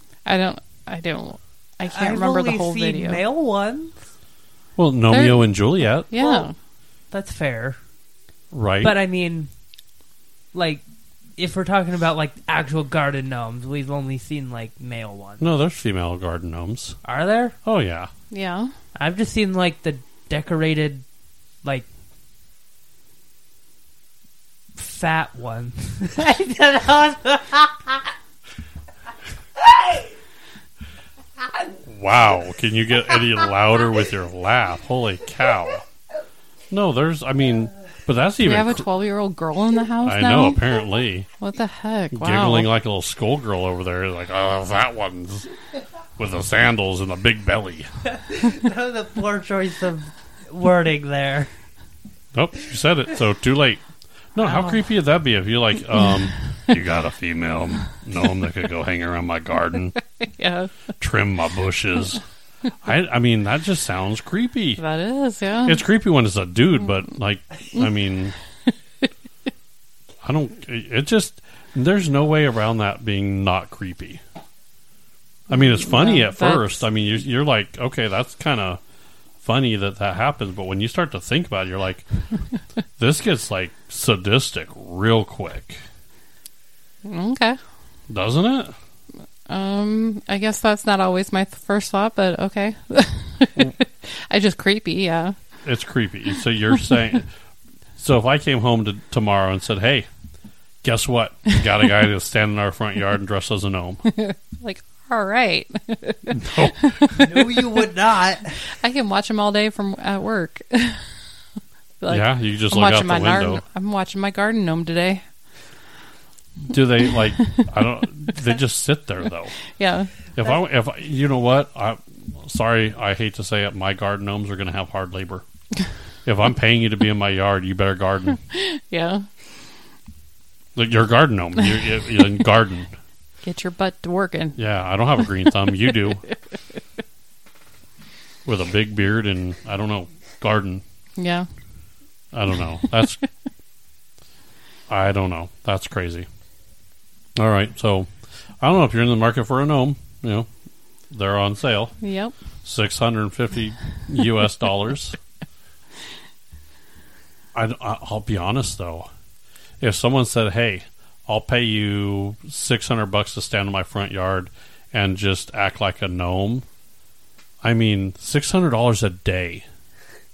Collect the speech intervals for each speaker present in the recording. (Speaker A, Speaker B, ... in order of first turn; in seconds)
Speaker A: 0.2-3.2, 5.1-5.5, 6.1-6.5, 18.3-18.7, 38.4-40.6, 41.4-42.7, 60.2-60.7, 64.8-65.8, 75.5-76.8, 87.0-87.6, 89.5-95.3, 104.0-107.1, 108.6-111.0, 112.0-115.2, 117.4-117.7, 119.6-120.2, 128.5-129.2, 133.4-134.6, 141.2-141.5, 152.0-152.3
Speaker B: 1.9-4.0, 6.2-6.5, 7.1-7.8, 8.8-9.5, 10.5-10.8, 11.4-15.4, 17.0-17.5, 18.9-21.0, 24.8-28.1, 48.3-51.5, 54.4-54.8, 107.1-108.6
Speaker C: 4.8-6.1, 8.5-9.0, 15.4-17.0, 17.6-18.1, 31.9-35.8, 36.7-38.8, 40.0-41.3, 42.1-45.5, 46.2-47.9, 52.3-53.8, 54.3-59.9, 61.0-62.2, 62.8-64.8, 65.7-68.3, 70.2-74.2, 75.5-78.8, 79.4-82.0, 83.0-85.8, 88.1-88.7, 95.6-97.3, 98.0-100.1, 100.8-104.0, 106.3-107.3, 112.1-113.6, 116.7-119.6, 120.3-125.4, 126.2-128.4, 130.7-132.9, 134.6-136.2, 138.4-140.8, 142.3-143.2, 144.9-146.3, 147.3-148.1, 148.6-150.5, 151.1-151.9, 152.6-155.2, 157.5-159.1, 159.8-166.6, 167.6-169.6